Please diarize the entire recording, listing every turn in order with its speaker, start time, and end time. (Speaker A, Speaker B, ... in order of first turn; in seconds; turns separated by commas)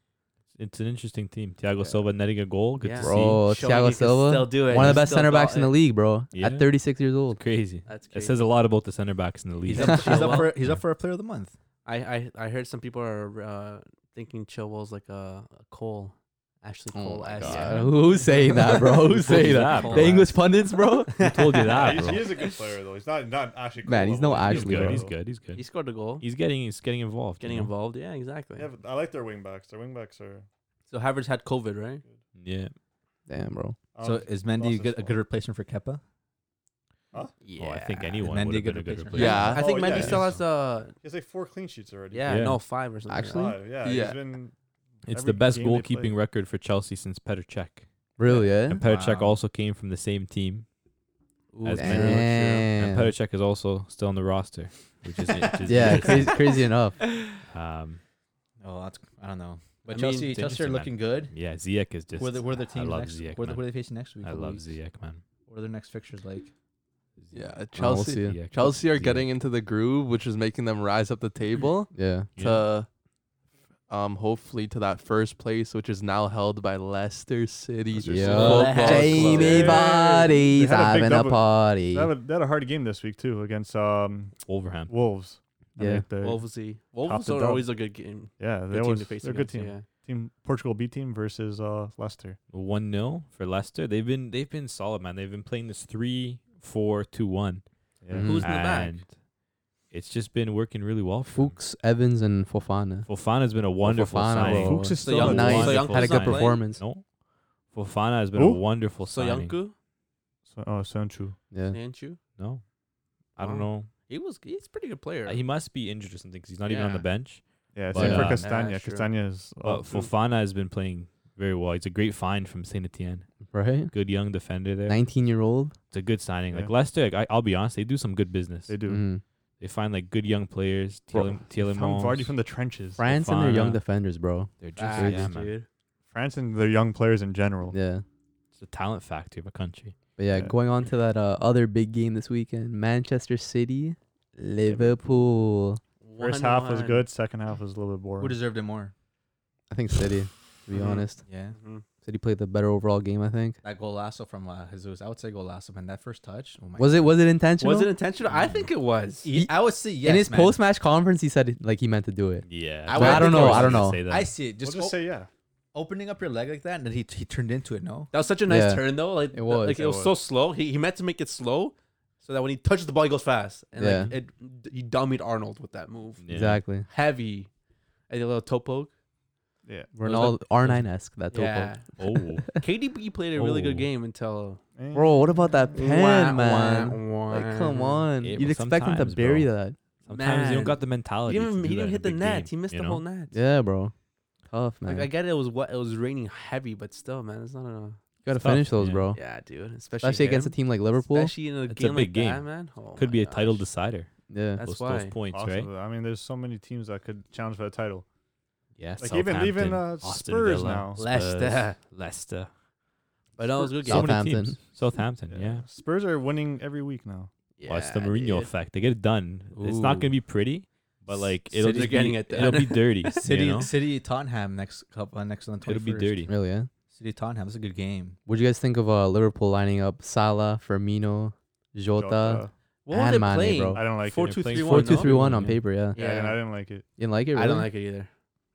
Speaker A: 0.5-3.4, Speaker B: 1.8-2.0, Speaker B: 2.8-5.8, Speaker C: 3.0-7.4, Speaker A: 4.7-5.0, Speaker A: 6.3-6.7, Speaker A: 7.3-10.4, Speaker B: 7.8-8.4, Speaker B: 9.7-10.6, Speaker D: 9.7-11.5, Speaker B: 11.8-22.6, Speaker C: 16.9-21.2, Speaker A: 17.4-18.0, Speaker A: 18.7-20.4, Speaker A: 21.2-22.3, Speaker E: 21.7-25.1, Speaker C: 23.8-25.1, Speaker A: 24.4-27.7, Speaker B: 25.5-26.2, Speaker B: 27.4-28.7, Speaker E: 28.6-30.4, Speaker B: 30.9-32.0, Speaker A: 32.4-32.7, Speaker C: 33.3-33.8, Speaker E: 33.9-35.2, Speaker D: 34.0-36.0, Speaker B: 37.4-38.2, Speaker A: 37.5-40.4, Speaker D: 38.2-39.6, Speaker F: 39.1-39.6, Speaker B: 39.3-40.9, Speaker E: 39.5-42.4, Speaker B: 42.1-43.6, Speaker A: 42.2-42.6, Speaker C: 43.1-43.6, Speaker E: 43.3-44.5, Speaker F: 43.8-44.2, Speaker E: 45.0-46.1, Speaker A: 45.0-47.9, Speaker C: 48.2-48.8, Speaker A: 48.6-50.6, Speaker D: 48.8-49.4, Speaker B: 51.5-52.6, Speaker A: 51.6-56.4, Speaker C: 51.7-53.1, Speaker C: 55.6-57.0, Speaker A: 57.4-58.0, Speaker D: 58.6-61.3, Speaker B: 59.9-60.5, Speaker A: 60.3-65.2, Speaker D: 62.2-64.7, Speaker D: 65.5-66.5, Speaker F: 67.3-72.9, Speaker C: 67.7-68.4, Speaker A: 68.0-69.3, Speaker C: 71.9-72.3, Speaker A: 72.3-72.7, Speaker F: 73.9-79.8, Speaker C: 78.0-82.1, Speaker D: 78.3-79.8, Speaker B: 78.6-79.5, Speaker E: 79.4-84.3, Speaker A: 84.5-84.9, Speaker E: 84.9-87.7, Speaker C: 85.8-86.0, Speaker B: 86.2-89.9, Speaker E: 88.4-92.4, Speaker A: 92.5-97.6, Speaker E: 98.0-98.4, Speaker C: 98.1-98.5, Speaker B: 98.2-99.0, Speaker A: 98.3-99.1, Speaker A: 99.9-101.6, Speaker C: 101.3-103.1, Speaker A: 103.0-107.0, Speaker C: 103.8-106.8, Speaker E: 104.4-105.9, Speaker B: 105.0-106.7, Speaker A: 107.7-109.6, Speaker E: 108.3-108.7, Speaker B: 109.0-109.7, Speaker E: 110.5-111.4, Speaker B: 111.7-112.2, Speaker A: 112.4-112.6, Speaker A: 113.3-113.9, Speaker B: 113.4-115.4, Speaker A: 115.2-118.5, Speaker B: 116.6-117.0, Speaker E: 117.7-120.1, Speaker C: 117.9-118.4, Speaker B: 118.1-119.2, Speaker A: 119.6-125.0, Speaker C: 123.5-123.9, Speaker C: 124.9-125.7, Speaker A: 125.9-128.7, Speaker E: 128.7-129.0, Speaker C: 128.9-129.2, Speaker A: 129.6-132.3, Speaker E: 131.1-133.1, Speaker C: 133.0-135.3, Speaker A: 133.1-133.8, Speaker A: 134.6-135.6, Speaker B: 134.8-135.7, Speaker E: 136.1-137.8, Speaker C: 137.7-138.0, Speaker A: 138.6-139.9, Speaker C: 140.2-145.8, Speaker E: 144.7-144.9, Speaker B: 146.0-147.1, Speaker E: 146.2-148.4, Speaker D: 148.2-148.9, Speaker C: 149.7-151.2, Speaker D: 151.1-151.5, Speaker B: 151.5-151.8, Speaker C: 152.0-153.6, Speaker D: 153.6-157.2, Speaker C: 156.8-157.9, Speaker B: 157.6-159.3, Speaker D: 159.2-160.6, Speaker C: 159.3-164.0, Speaker A: 162.4-164.3, Speaker D: 162.9-165.0, Speaker E: 164.6-165.3, Speaker D: 165.7-168.1, Speaker B: 168.1-177.5, Speaker C: 168.5-169.8, Speaker E: 169.7-170.1, Speaker C: 173.8-174.1, Speaker A: 176.2-176.6, Speaker C: 176.3-176.8, Speaker B: 178.1-178.9, Speaker E: 179.7-180.0, Speaker C: 179.9-182.0, Speaker B: 181.3-182.0, Speaker A: 182.0-182.6, Speaker B: 182.5-184.6, Speaker A: 183.3-183.9, Speaker E: 184.8-185.4, Speaker C: 184.9-189.8, Speaker B: 185.7-188.1, Speaker A: 188.2-189.5, Speaker A: 190.0-193.0, Speaker B: 190.1-193.3, Speaker C: 193.3-193.9, Speaker C: 194.5-195.1, Speaker B: 194.8-198.0, Speaker C: 198.2-199.2, Speaker A: 198.3-199.1, Speaker B: 199.1-203.7, Speaker C: 200.0-201.3, Speaker A: 201.7-205.7, Speaker C: 204.3-204.6, Speaker B: 204.6-205.2, Speaker E: 205.3-208.0, Speaker A: 208.8-212.5, Speaker E: 209.0-211.0, Speaker B: 210.9-211.8, Speaker B: 213.4-214.1, Speaker A: 213.8-215.7, Speaker C: 213.8-214.6, Speaker E: 215.3-217.3, Speaker B: 217.6-218.5, Speaker A: 217.7-223.7, Speaker C: 219.6-220.1, Speaker B: 221.5-223.3, Speaker D: 221.7-222.6, Speaker D: 223.2-226.2, Speaker A: 225.6-226.3, Speaker C: 226.3-226.7, Speaker D: 226.9-228.2, Speaker C: 228.3-233.8, Speaker E: 231.9-232.5, Speaker B: 232.8-236.5, Speaker E: 233.7-234.7, Speaker A: 234.2-235.6, Speaker C: 234.5-236.0, Speaker E: 235.9-236.9, Speaker C: 237.0-237.7, Speaker B: 237.3-238.1